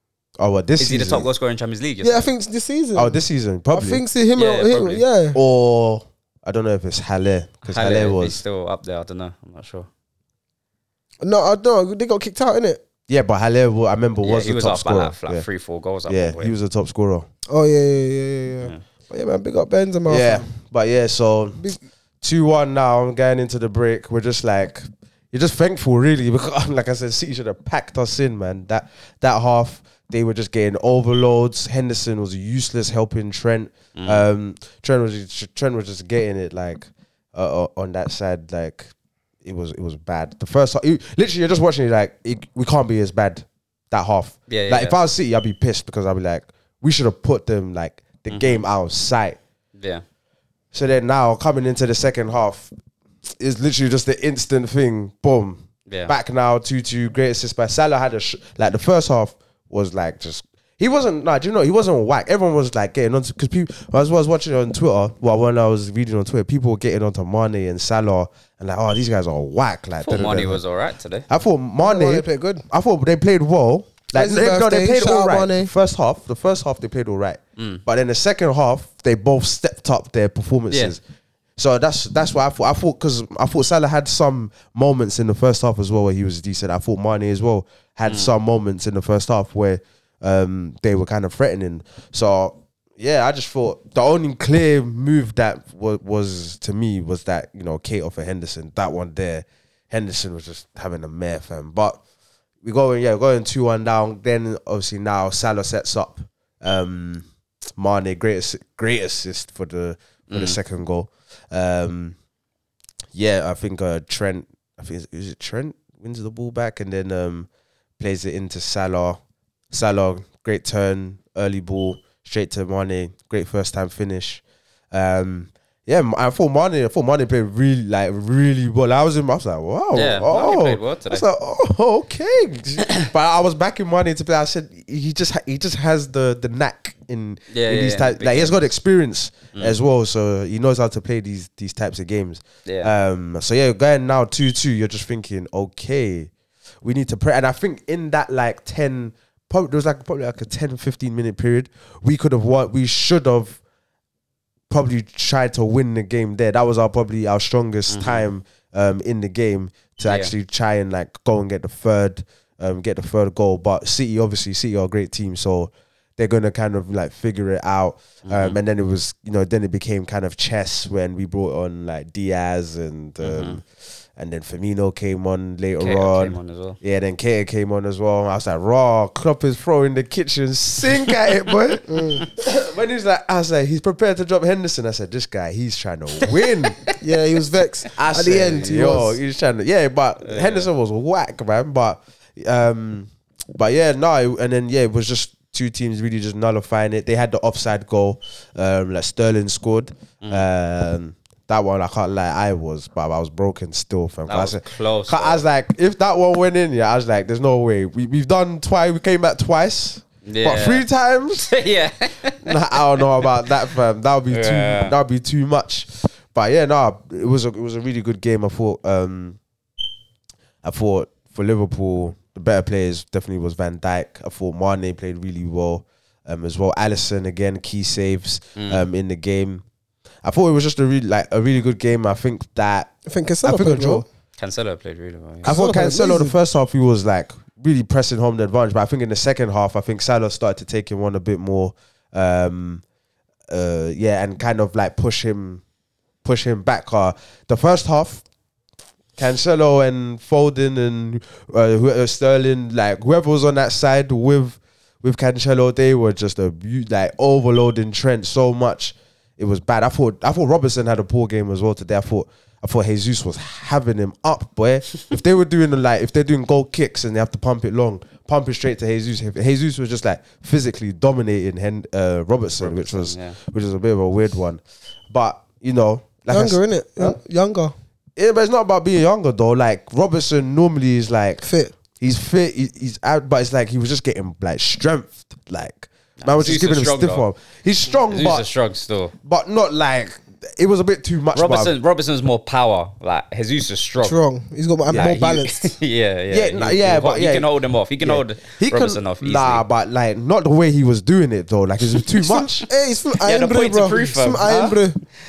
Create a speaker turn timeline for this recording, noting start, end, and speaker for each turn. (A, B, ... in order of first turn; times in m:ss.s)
0:00.4-0:01.3 A
0:00.8-0:02.3 B
0:02.0-0:05.4 C
0:02.9-0:04.0 A
0:04.4-0:05.0 B
0:05.3-0:08.4 A
0:07.6-0:09.9 B
0:11.2-0:12.8 C
0:13.1-0:15.4 A
0:14.2-0:16.5 B
0:16.1-0:17.3 A
0:17.5-0:20.5 C
0:20.1-0:21.6 A
0:22.2-0:38.9 A
0:33.9-0:34.2 B
0:39.4-0:49.4 A
0:44.5-0:45.0 B
0:48.3-0:48.6 B
0:49.8-0:50.0 B
0:50.7-0:52.7 A
0:53.4-1:10.6 A
0:55.9-0:56.1 B
1:10.0-1:11.2 B
1:11.3-1:21.0 A
1:11.8-1:12.6 C
1:14.1-1:15.7 C
1:17.6-1:17.8 B
1:20.7-1:21.0 B
1:21.6-1:42.0 A
1:28.0-1:28.3 B
1:42.6-1:47.2 A
1:47.8-1:52.2 A
1:50.3-1:50.6 B
1:53.1-1:57.5 A
1:58.0-1:59.2 A
1:59.7-2:26.3 A
2:09.9-2:11.2 B
2:17.5-2:18.6 B
2:22.6-2:22.9 B
2:26.8-2:33.6 A
2:34.7-2:53.6 A
2:37.9-2:38.2 B
2:40.0-2:40.3 B
2:48.2-2:48.6 B
2:53.2-2:53.6 B
2:54.2-3:06.8 A
2:55.8-2:56.8 B
3:01.9-3:02.2 C
3:06.3-3:06.9 B
3:07.0-3:09.2 C
3:07.9-3:31.5 A
3:10.2-3:10.7 B
3:24.3-3:25.4 B
3:30.2-3:30.8 B
3:31.4-3:32.5 B
3:32.4-3:39.4 A
3:34.3-3:34.9 B
3:40.6-3:49.6 A
3:48.6-3:48.8 B
3:50.2-3:52.9 A
3:53.0-3:54.0 C
3:53.4-3:54.0 A
3:54.4-3:55.5 B
3:55.4-4:02.8 A
3:55.4-3:56.3 C
4:03.5-4:05.6 A
4:06.2-4:08.2 A
4:09.2-4:37.2 A
4:32.6-4:33.4 B
4:36.3-4:37.7 C
4:38.2-4:41.4 A
4:41.4-4:41.7 C
4:42.0-4:48.4 A
4:46.2-4:47.2 B
4:48.1-4:49.1 B
4:49.2-4:51.7 A
4:51.3-4:54.2 B
4:54.0-4:55.7 C
4:54.9-4:55.1 A
4:54.9-4:59.6 B
4:56.3-4:57.5 A
4:58.0-5:02.7 A
5:02.2-5:05.0 C
5:03.2-5:04.9 B